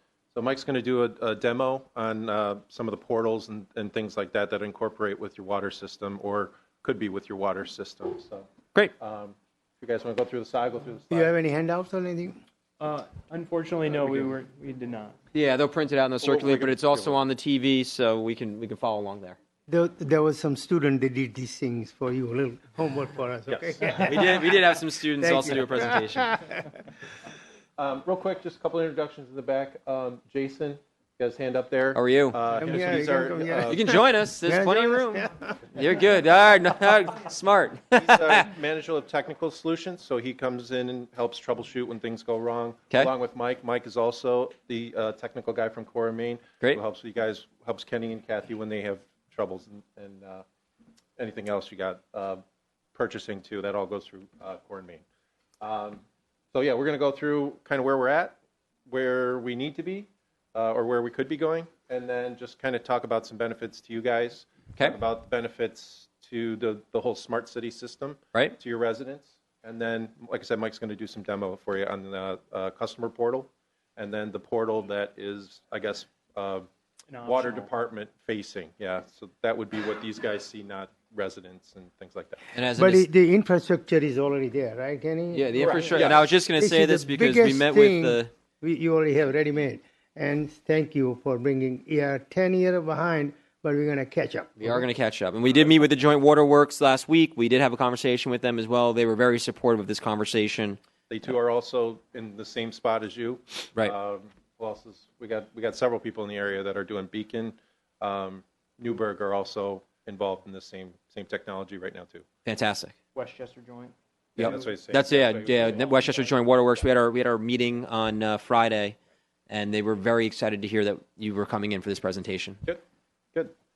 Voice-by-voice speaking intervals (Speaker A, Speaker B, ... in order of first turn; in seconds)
Speaker A: 0.3-8.5, 9.0-11.3, 13.9-14.3, 16.2-17.2, 23.5-24.4, 27.8-34.0, 38.0-50.4, 51.2-52.4, 53.0-55.0, 55.6-56.0, 56.5-58.4, 58.9-76.7, 77.2-82.4, 85.9-86.3, 101.1-112.3, 114.4-116.3
Speaker B: 11.1-12.4, 19.7-24.7, 25.2-26.4, 32.6-35.5, 82.8-94.8
Speaker C: 12.8-15.2, 77.1-77.7, 113.2-113.9
Speaker D: 15.3-19.4, 24.0-26.3, 31.9-32.4, 33.7-38.5, 82.5-83.1, 85.3-88.3, 94.6-100.8, 112.5-113.0, 114.4-119.0, 119.5-122.6